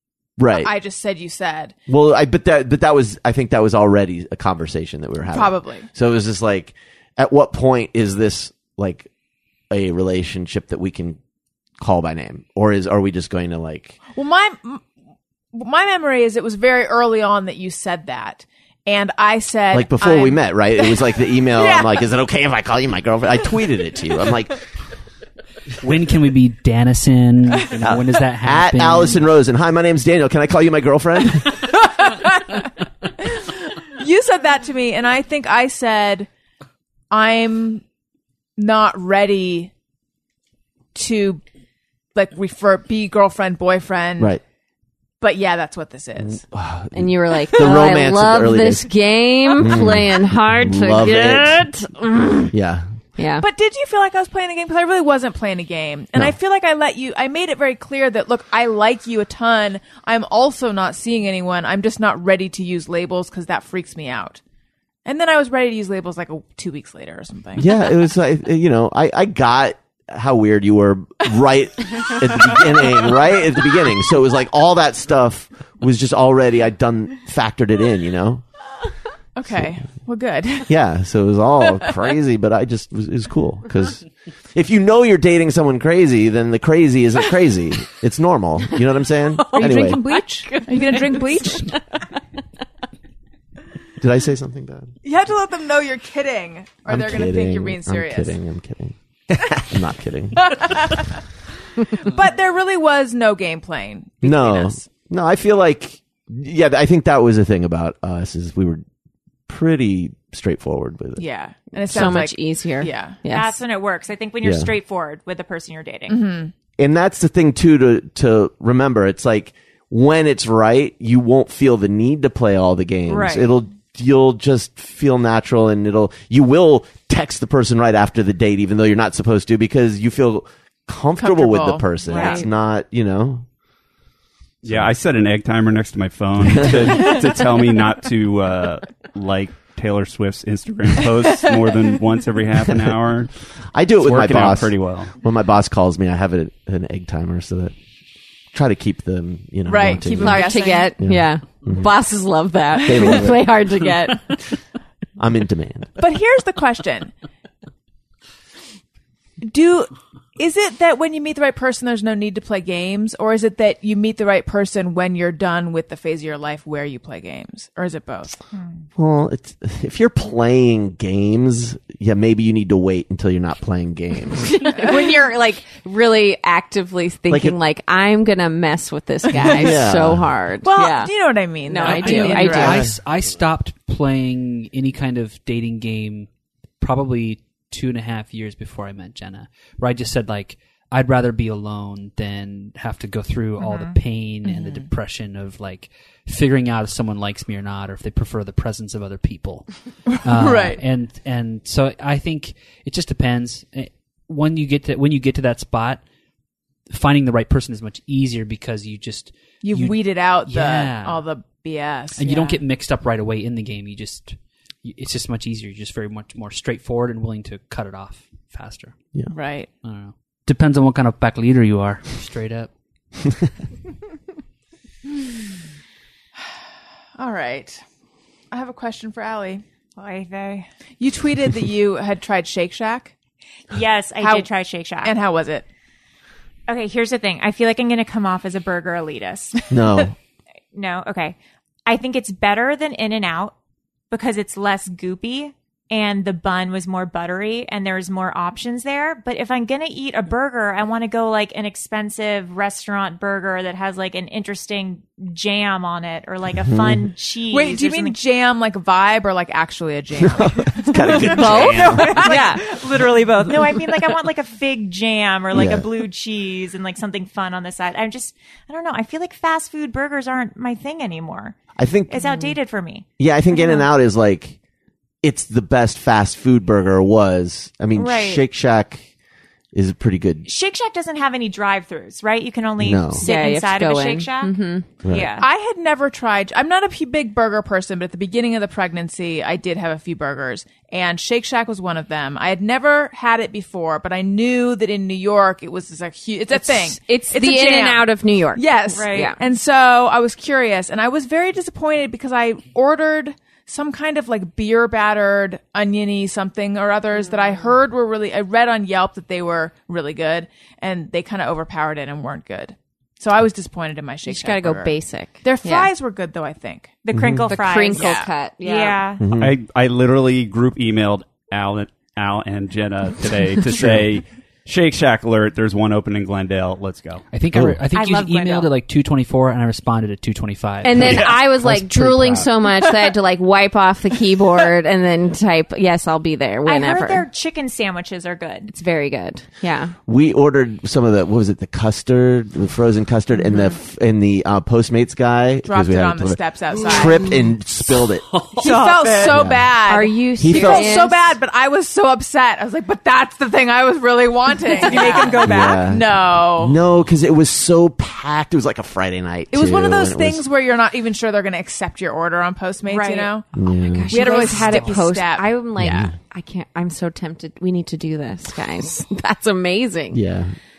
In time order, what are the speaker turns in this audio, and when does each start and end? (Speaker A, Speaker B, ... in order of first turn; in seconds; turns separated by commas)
Speaker A: 0.4-0.7, Speaker B: 0.5-1.8, Speaker A: 1.9-9.1, Speaker B: 5.3-5.9, Speaker A: 9.7-11.2, Speaker A: 11.8-14.0, Speaker B: 14.2-14.8, Speaker B: 15.5-22.0, Speaker A: 19.7-24.6, Speaker C: 25.8-29.3, Speaker A: 27.8-31.6, Speaker B: 31.8-36.3, Speaker B: 37.1-37.8, Speaker B: 38.6-39.7, Speaker B: 40.9-41.4, Speaker B: 42.1-44.4, Speaker B: 45.2-46.4, Speaker A: 46.2-48.9, Speaker D: 46.9-52.5, Speaker A: 49.5-51.7, Speaker A: 52.5-52.9, Speaker D: 53.2-53.5, Speaker B: 53.4-64.4, Speaker B: 65.0-67.7, Speaker A: 67.6-78.4, Speaker B: 79.4-80.7, Speaker A: 80.7-90.0, Speaker D: 89.4-91.8, Speaker B: 89.6-91.7, Speaker A: 94.0-94.9, Speaker B: 95.0-98.3, Speaker A: 96.9-100.7, Speaker B: 100.4-101.2, Speaker B: 101.8-104.9, Speaker A: 104.2-108.8, Speaker A: 109.5-111.2, Speaker B: 111.2-113.2, Speaker D: 111.9-113.6, Speaker A: 111.9-112.2, Speaker E: 113.3-116.2, Speaker A: 114.4-114.7, Speaker B: 116.1-116.5, Speaker A: 116.8-133.4, Speaker E: 123.1-123.5, Speaker B: 131.2-132.4, Speaker E: 132.1-132.5, Speaker A: 134.6-134.9, Speaker F: 134.6-143.3, Speaker A: 136.4-137.0, Speaker A: 142.7-143.0, Speaker A: 143.7-147.8, Speaker F: 144.0-145.1, Speaker A: 148.5-151.9, Speaker B: 149.7-151.0, Speaker D: 150.2-154.4, Speaker B: 152.8-153.2, Speaker A: 152.8-153.5, Speaker A: 155.2-155.9, Speaker B: 156.0-157.1, Speaker B: 159.4-168.4, Speaker E: 168.5-168.8, Speaker A: 169.0-174.5, Speaker D: 174.4-182.9, Speaker A: 177.3-177.6, Speaker B: 179.3-179.7, Speaker A: 179.4-180.3, Speaker B: 180.6-182.8, Speaker C: 181.8-186.3, Speaker A: 182.7-182.9, Speaker C: 186.8-206.0, Speaker E: 193.6-194.0, Speaker B: 194.4-194.9, Speaker B: 200.3-200.8, Speaker C: 206.9-211.3, Speaker B: 209.6-212.6, Speaker C: 212.2-218.9, Speaker B: 219.3-219.7, Speaker C: 219.8-222.7, Speaker B: 227.2-227.8, Speaker B: 228.5-229.6, Speaker E: 230.0-230.7, Speaker B: 231.0-233.1, Speaker E: 233.7-235.2, Speaker B: 234.2-234.5, Speaker B: 235.0-235.7, Speaker E: 236.7-239.6, Speaker A: 239.7-240.2, Speaker E: 240.7-243.5, Speaker E: 244.1-258.2, Speaker A: 256.6-257.1, Speaker B: 257.5-262.6, Speaker A: 260.2-262.2, Speaker D: 261.1-262.6, Speaker E: 261.1-271.6, Speaker A: 265.5-265.9, Speaker A: 271.8-272.4, Speaker E: 272.1-273.9, Speaker A: 273.2-274.6, Speaker A: 275.2-279.1, Speaker E: 277.9-278.4, Speaker A: 279.7-280.5, Speaker E: 280.4-285.5, Speaker A: 282.8-283.3, Speaker D: 283.1-285.0, Speaker A: 285.0-285.3, Speaker B: 285.4-316.9, Speaker D: 296.5-299.4, Speaker E: 298.9-299.3, Speaker E: 307.3-307.7, Speaker D: 314.3-315.9, Speaker E: 317.1-319.2, Speaker A: 317.1-317.6, Speaker D: 317.5-319.1, Speaker B: 317.9-318.3, Speaker A: 319.2-319.6, Speaker F: 319.3-327.2, Speaker A: 323.7-324.1, Speaker C: 327.3-332.5, Speaker A: 327.5-327.8, Speaker E: 327.9-328.7, Speaker D: 330.8-337.3, Speaker F: 331.0-331.3, Speaker E: 336.6-338.7, Speaker D: 338.7-339.9, Speaker A: 340.1-348.3, Speaker B: 345.6-347.2, Speaker C: 348.3-348.7, Speaker E: 348.6-349.4, Speaker B: 348.6-356.8, Speaker A: 349.2-349.7, Speaker D: 349.8-351.3, Speaker A: 350.4-351.0, Speaker E: 354.7-355.9, Speaker A: 355.4-360.4, Speaker B: 359.5-363.5, Speaker E: 362.9-363.3, Speaker A: 363.5-364.3, Speaker D: 363.8-370.2, Speaker B: 364.1-366.1, Speaker C: 364.6-365.0, Speaker A: 365.8-366.1, Speaker A: 370.1-370.6